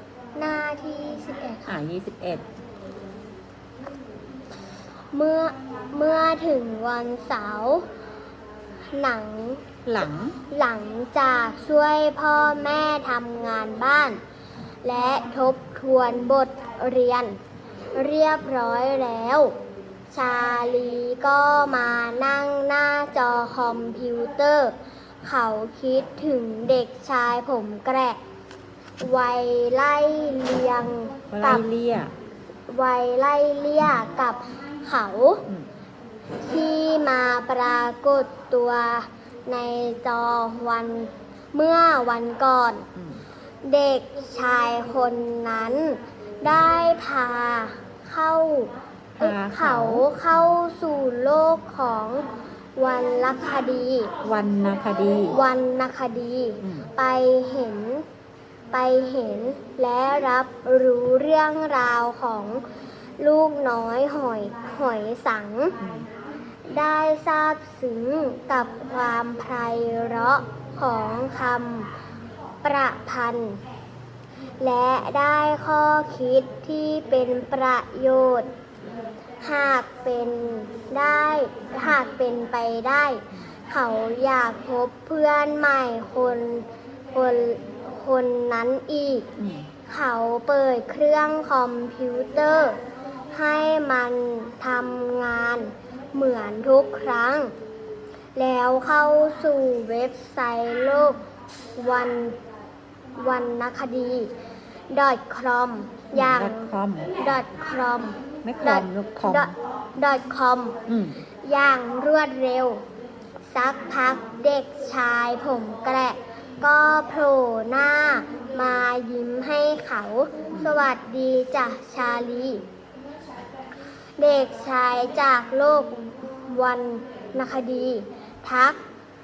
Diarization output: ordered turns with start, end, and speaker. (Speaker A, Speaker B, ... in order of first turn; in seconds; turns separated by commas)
Speaker A: 0.4-1.8, Speaker B: 1.7-2.4, Speaker A: 5.1-7.8, Speaker A: 8.9-9.7, Speaker B: 9.9-10.4, Speaker A: 10.5-14.2, Speaker A: 14.8-17.4, Speaker A: 17.9-19.6, Speaker A: 20.1-28.2, Speaker A: 29.0-31.7, Speaker B: 31.3-32.1, Speaker A: 32.7-35.5, Speaker A: 36.4-42.9, Speaker B: 43.0-43.2, Speaker A: 43.6-52.3, Speaker B: 49.2-50.1, Speaker A: 52.8-54.1, Speaker B: 54.2-55.4, Speaker A: 55.3-58.0, Speaker A: 58.7-62.6, Speaker A: 63.2-65.8, Speaker B: 65.8-66.1, Speaker A: 66.7-71.9, Speaker A: 72.6-73.6, Speaker A: 74.6-78.5, Speaker A: 79.4-89.3, Speaker B: 89.4-89.7, Speaker A: 89.9-92.8, Speaker A: 93.3-97.5, Speaker A: 98.4-101.2, Speaker A: 101.8-102.4, Speaker A: 103.2-104.3, Speaker A: 104.9-110.8, Speaker B: 106.1-107.2, Speaker B: 108.4-109.5, Speaker B: 110.9-111.2, Speaker A: 111.4-112.8, Speaker A: 113.5-122.6, Speaker A: 124.2-128.8